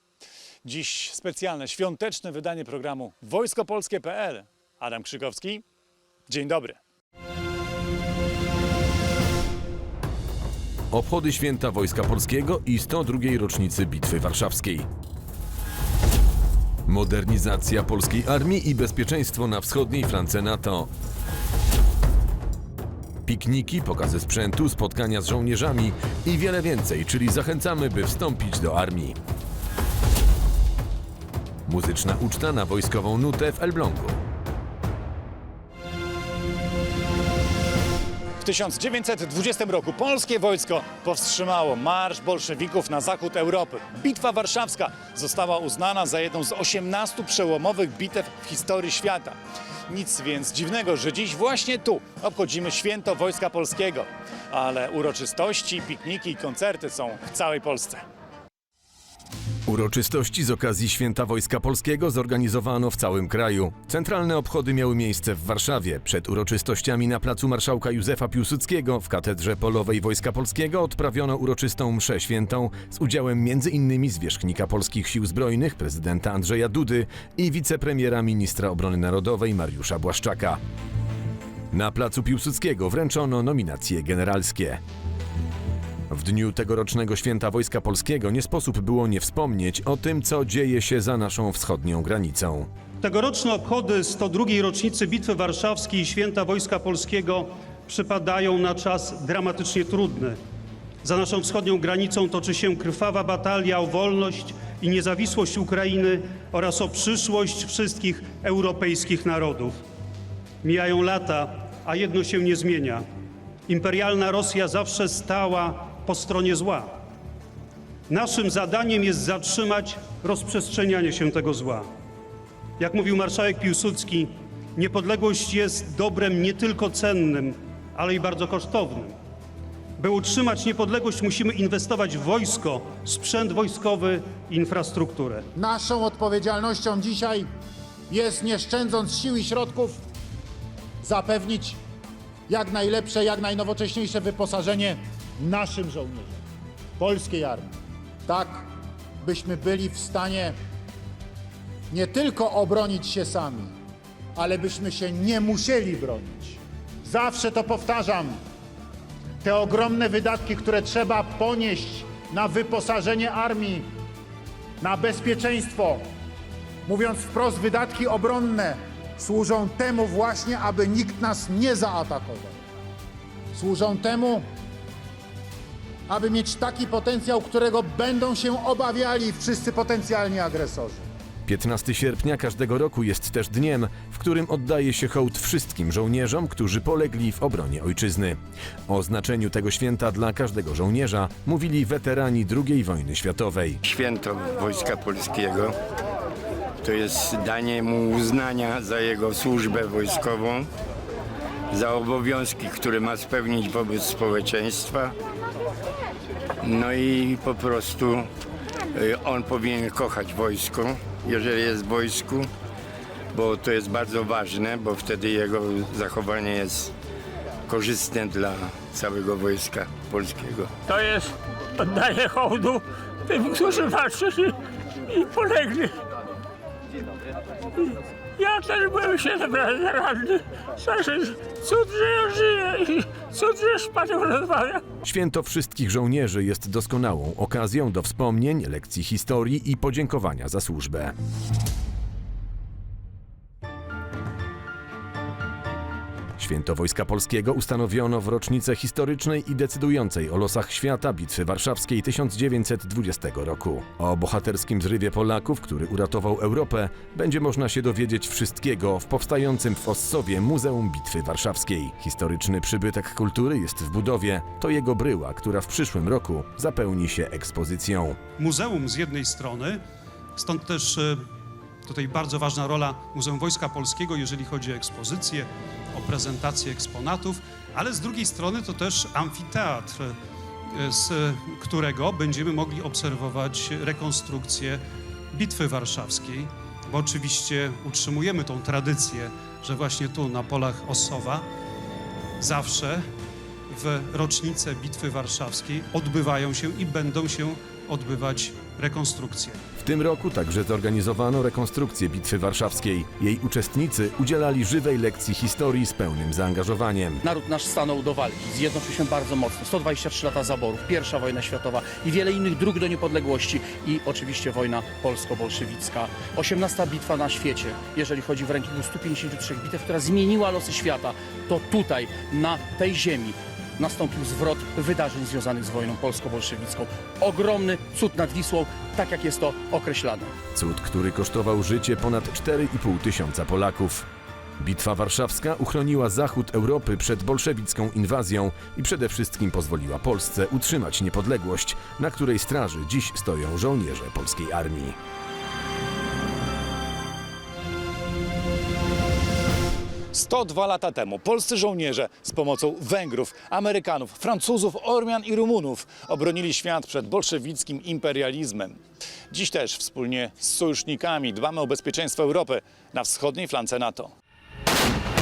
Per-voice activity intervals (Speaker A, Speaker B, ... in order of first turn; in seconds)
Speaker A: 0.6-5.6, 6.3-6.8, 38.4-49.4, 49.9-58.0, 350.1-358.8, 359.3-364.1
Speaker B: 10.9-14.9, 16.9-20.9, 23.3-29.2, 31.7-34.2, 59.7-80.6, 81.7-84.8, 86.1-92.7, 181.5-188.4, 188.9-193.8, 235.0-241.1, 246.4-268.2, 299.8-307.2, 330.6-334.1, 334.6-345.0
Speaker C: 93.0-100.4, 101.0-109.8, 110.6-113.0, 113.7-117.0, 118.1-121.9, 122.8-129.2, 130.0-135.4, 268.4-269.8, 270.4-271.3, 271.9-280.2, 280.7-284.8, 285.3-291.4, 292.4-293.0, 293.7-299.6
Speaker D: 135.6-137.5, 138.1-140.0, 141.0-141.8, 142.5-146.4, 147.0-147.7, 148.3-148.7, 149.2-150.5, 151.9-153.7, 154.4-158.4, 159.4-163.8, 164.8-166.0, 166.9-172.5, 173.5-174.4, 176.1-181.0
Speaker E: 193.8-195.8, 196.8-200.7, 201.7-205.1, 206.6-208.3, 208.9-212.5, 213.3-216.9, 217.7-220.7
Speaker F: 220.9-221.3, 221.8-224.5, 225.1-225.9, 228.4-234.8
Speaker G: 307.2-330.3